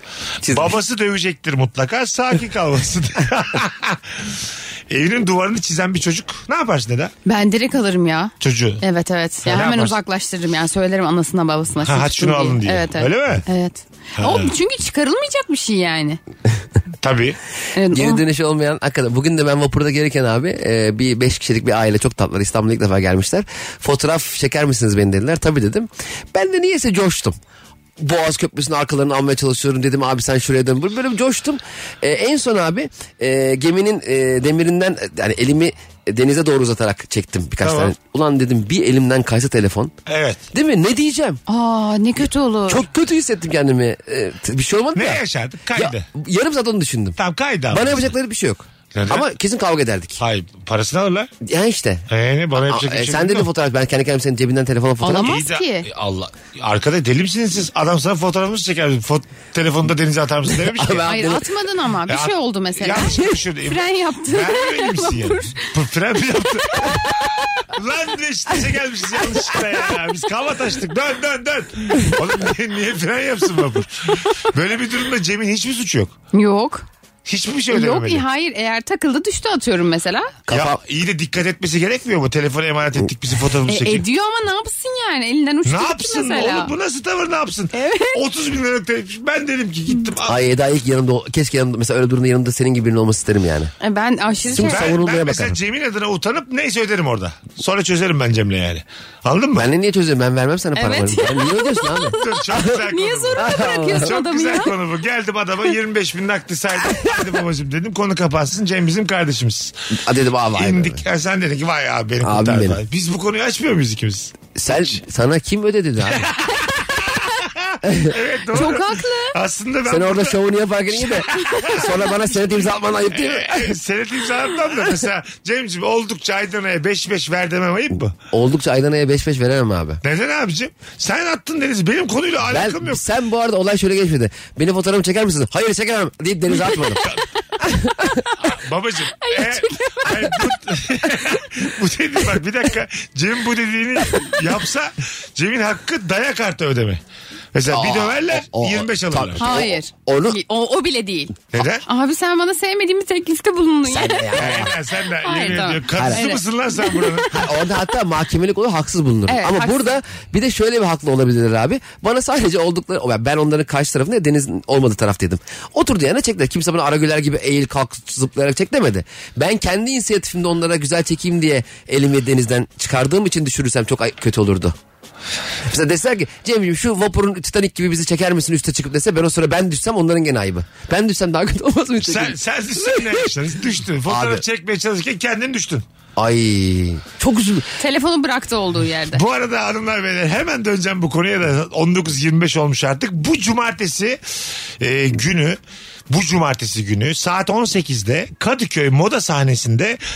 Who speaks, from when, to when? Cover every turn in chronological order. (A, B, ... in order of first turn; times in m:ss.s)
0:00.4-0:00.8 A
0:00.5-0:07.1 B
0:07.2-0:16.2 C
0:08.4-0:08.8 B
0:09.4-0:10.0 B
0:11.8-0:13.4 B
0:14.2-0:14.5 B
0:17.0-0:17.4 B
0:17.8-0:18.2 C
0:17.9-0:27.4 A
0:28.0-0:39.9 A
0:37.6-0:38.0 B
0:40.1-0:40.4 B
0:40.5-0:41.4 A
0:41.5-0:42.9 C
0:42.7-0:45.2 A
0:44.9-0:46.1 B
0:45.8-0:47.2 A
0:47.2-0:48.1 B
0:47.7-0:50.2 A
0:48.9-0:49.3 B
0:50.2-0:51.3 B
0:51.4-0:52.0 A
0:52.1-0:53.5 B
0:52.6-0:55.4 A
0:55.0-0:55.9 C
0:55.2-1:01.2 B
1:00.5-1:01.4 A
1:01.1-1:05.7 C
1:02.1-1:07.1 B
1:06.6-1:07.1 C
1:07.7-1:16.1 B
1:16.3-1:16.9 C
1:17.3-1:18.2 B
1:17.7-1:20.3 C
1:20.5-1:20.8 A
1:20.5-1:24.0 B
1:23.7-1:26.7 C
1:25.7-1:30.4 B
1:27.7-1:28.2 C
1:30.2-1:33.7 A
1:33.8-1:34.9 C
1:34.5-1:35.6 A
1:34.6-1:39.7 B
1:39.6-1:42.8 A
1:40.8-1:44.8 C
1:42.2-1:49.7 B
1:43.4-1:44.1 A
1:50.0-1:51.0 A
1:50.6-1:55.0 B
1:52.2-1:52.8 A
1:54.6-1:56.3 A
1:56.1-2:00.4 B
1:57.8-1:58.1 A
1:58.5-1:59.4 C
1:59.9-2:03.8 A
2:01.0-2:02.0 B
2:01.4-2:01.7 C
2:03.1-2:08.2 B
2:08.3-2:10.0 A
2:10.0-2:13.0 B
2:12.5-2:17.0 A
2:17.6-2:18.2 A
2:18.4-2:27.0 B
2:19.2-2:20.4 C
2:27.5-2:29.5 B
2:27.7-2:30.4 A
2:29.4-2:37.3 C
2:31.5-2:31.8 B
2:33.9-2:34.8 A
2:34.4-2:37.4 B
2:35.9-2:36.3 A
2:37.3-2:54.8 A
2:39.3-2:39.9 C
2:55.6-3:03.3 A
3:02.0-3:05.8 B
3:04.1-3:04.4 A
3:06.2-3:07.7 A
3:07.8-3:09.2 C
3:09.1-3:14.2 B
3:14.8-3:15.6 B
3:16.1-3:20.0 B